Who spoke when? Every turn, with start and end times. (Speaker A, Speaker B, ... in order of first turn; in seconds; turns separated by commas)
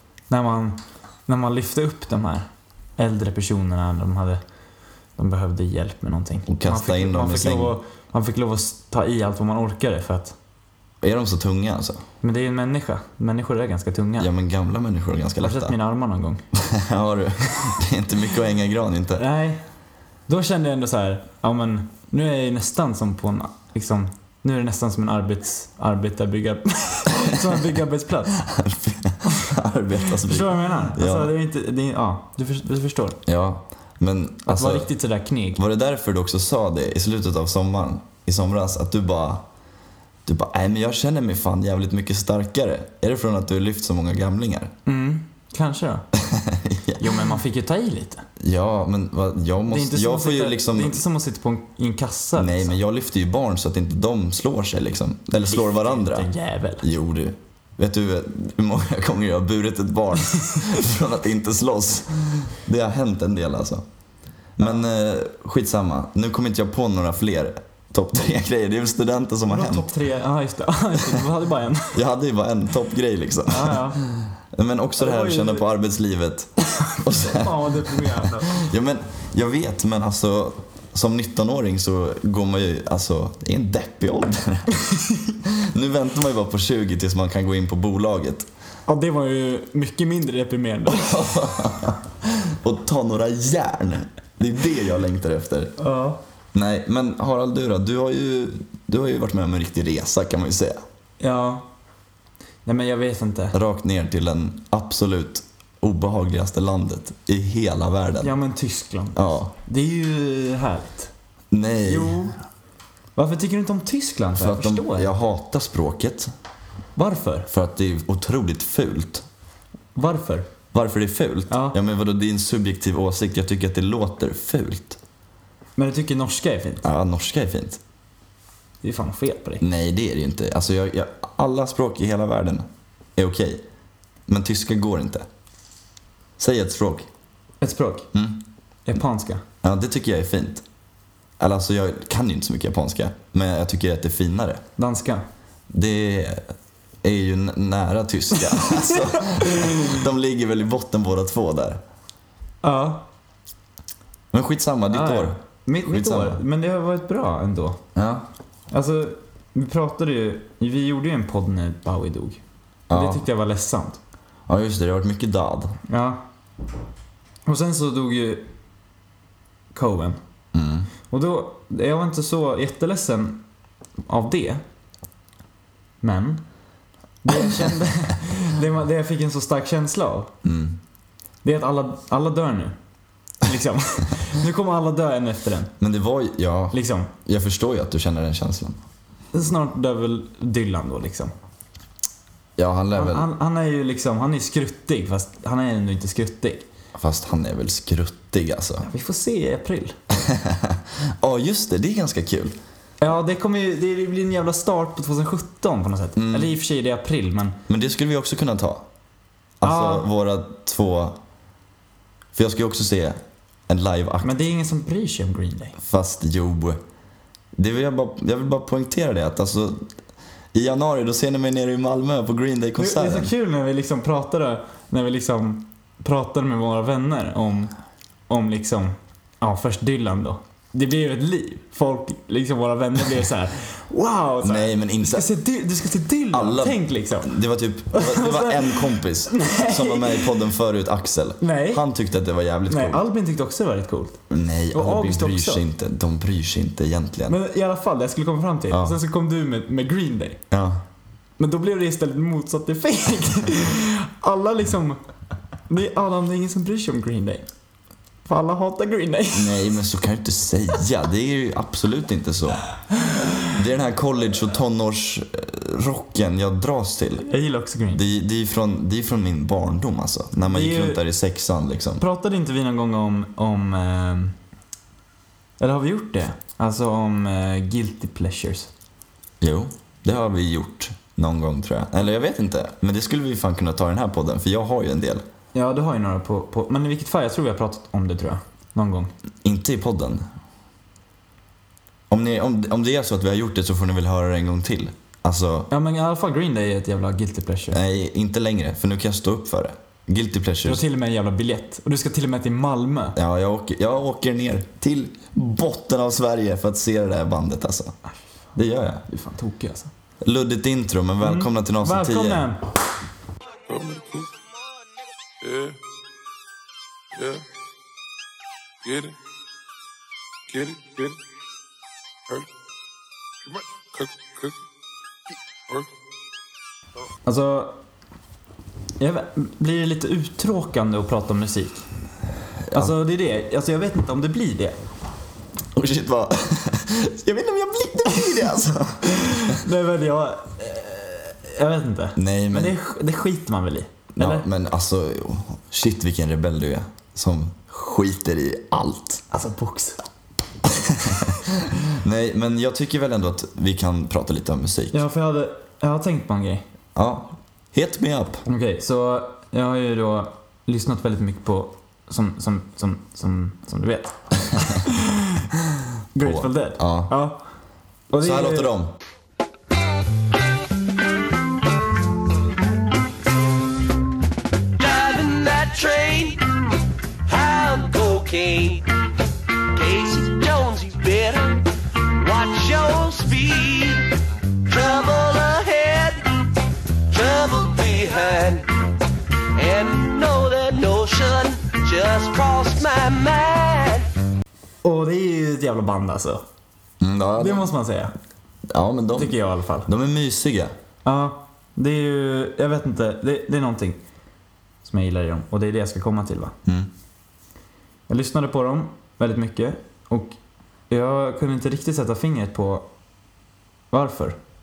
Speaker A: 0.3-2.5, Speaker A: 3.0-4.4, Speaker A: 5.2-10.3, Speaker B: 6.5-7.8, Speaker B: 11.0-12.0, Speaker A: 12.2-14.3, Speaker B: 14.2-15.7, Speaker A: 15.4-16.4, Speaker B: 16.5-19.2, Speaker A: 19.2-19.6, Speaker A: 20.3-28.4, Speaker B: 28.4-31.3, Speaker A: 30.1-33.2, Speaker B: 33.2-34.9, Speaker A: 34.5-35.6, Speaker B: 35.5-39.5, Speaker B: 40.2-44.7, Speaker A: 44.9-46.0, Speaker B: 46.1-47.3, Speaker A: 47.0-48.2, Speaker B: 48.4-51.0, Speaker A: 49.7-52.8, Speaker B: 52.4-56.3, Speaker A: 55.4-56.9, Speaker B: 56.8-63.8, Speaker B: 64.6-69.9, Speaker A: 69.5-72.0, Speaker B: 71.9-84.8, Speaker A: 73.5-74.0, Speaker A: 75.0-75.7, Speaker A: 76.8-78.6, Speaker A: 84.9-85.2, Speaker B: 85.4-88.5, Speaker A: 88.9-91.3, Speaker B: 90.9-95.7, Speaker A: 95.8-96.2, Speaker B: 96.5-100.8, Speaker A: 101.2-101.7, Speaker A: 102.6-103.5, Speaker B: 103.5-108.3, Speaker A: 108.2-111.1, Speaker B: 109.2-109.5, Speaker B: 111.5-112.3, Speaker A: 111.8-112.4, Speaker A: 113.2-115.1, Speaker B: 114.4-116.3, Speaker A: 117.0-117.5, Speaker B: 117.5-119.2, Speaker A: 120.0-120.5, Speaker B: 120.7-125.0, Speaker A: 121.5-121.8, Speaker A: 125.8-126.9, Speaker B: 126.8-127.8, Speaker A: 128.8-129.6, Speaker B: 129.6-133.6, Speaker B: 134.3-135.2, Speaker B: 136.4-137.1, Speaker A: 137.6-138.1, Speaker B: 138.1-138.4, Speaker A: 138.8-139.4, Speaker B: 139.6-140.6, Speaker B: 141.4-144.6, Speaker A: 144.8-145.2, Speaker B: 145.7-146.5, Speaker B: 147.0-151.8, Speaker A: 148.6-150.0, Speaker A: 152.6-153.1, Speaker B: 154.3-156.4, Speaker A: 154.9-157.8, Speaker B: 157.9-158.3, Speaker A: 158.7-162.4, Speaker B: 162.9-163.2, Speaker A: 162.9-164.0, Speaker B: 164.5-165.8, Speaker A: 165.9-166.2, Speaker A: 167.4-168.5, Speaker A: 169.7-170.2, Speaker B: 170.5-170.9, Speaker A: 171.1-173.4, Speaker A: 174.1-174.6, Speaker A: 176.0-176.4, Speaker A: 177.2-180.3, Speaker B: 180.4-180.8, Speaker A: 181.4-182.7, Speaker A: 183.4-185.7, Speaker B: 185.8-188.8, Speaker A: 186.7-187.1, Speaker A: 189.3-191.3, Speaker B: 192.6-193.3, Speaker A: 192.9-196.7, Speaker B: 196.9-198.9, Speaker A: 198.8-199.9, Speaker B: 200.1-202.6, Speaker A: 203.0-207.6, Speaker B: 206.2-206.5, Speaker B: 207.7-208.8, Speaker B: 209.6-211.2, Speaker A: 209.6-210.1, Speaker B: 212.3-214.3, Speaker A: 214.2-215.8, Speaker B: 215.8-216.8, Speaker B: 217.6-219.8, Speaker B: 220.5-223.3, Speaker A: 222.8-227.7, Speaker A: 228.3-237.4, Speaker B: 234.4-235.3, Speaker B: 236.3-243.0, Speaker A: 237.9-240.3, Speaker A: 241.4-241.8, Speaker A: 242.7-244.2, Speaker B: 244.3-247.4, Speaker A: 244.7-245.6, Speaker A: 247.3-250.4, Speaker B: 248.7-249.0, Speaker B: 250.5-250.8, Speaker A: 251.4-255.0, Speaker A: 255.7-257.4, Speaker A: 258.2-259.8, Speaker B: 259.3-262.6, Speaker A: 263.1-263.4, Speaker B: 263.6-267.3, Speaker A: 267.2-268.0, Speaker B: 267.9-272.0, Speaker A: 270.4-271.0, Speaker A: 272.0-274.3, Speaker A: 275.6-278.7, Speaker B: 279.4-285.2, Speaker A: 285.5-289.1, Speaker B: 289.4-290.2, Speaker B: 292.1-295.7, Speaker A: 295.7-297.8, Speaker B: 297.7-300.8, Speaker A: 300.6-303.2, Speaker B: 303.1-307.9, Speaker B: 308.5-309.0, Speaker A: 309.1-309.9, Speaker B: 310.2-312.5, Speaker A: 311.2-312.6, Speaker C: 313.7-314.3, Speaker C: 315.4-315.8, Speaker C: 317.1-317.4, Speaker C: 318.8-319.1, Speaker C: 320.5-321.2, Speaker C: 323.5-324.6, Speaker A: 327.2-327.8, Speaker A: 329.0-331.8, Speaker B: 332.6-332.9, Speaker A: 332.7-334.8, Speaker B: 335.7-339.6, Speaker A: 339.1-344.4, Speaker B: 342.1-342.8, Speaker B: 344.1-349.2, Speaker A: 349.3-350.0, Speaker B: 350.6-355.0, Speaker A: 354.9-356.6, Speaker B: 356.9-358.4, Speaker A: 358.4-365.4, Speaker A: 366.1-367.4, Speaker B: 366.2-367.1, Speaker A: 368.1-368.7, Speaker B: 368.2-368.9, Speaker D: 374.8-376.6, Speaker D: 377.2-378.9, Speaker D: 379.7-384.1, Speaker D: 384.6-386.3, Speaker D: 387.1-388.7, Speaker D: 389.5-394.1, Speaker A: 394.8-396.4, Speaker B: 397.0-397.7, Speaker A: 397.4-398.1, Speaker B: 398.7-400.7, Speaker A: 399.1-399.9, Speaker A: 401.0-404.0, Speaker A: 404.8-406.5, Speaker A: 408.1-410.4, Speaker A: 410.9-412.9, Speaker A: 413.9-414.4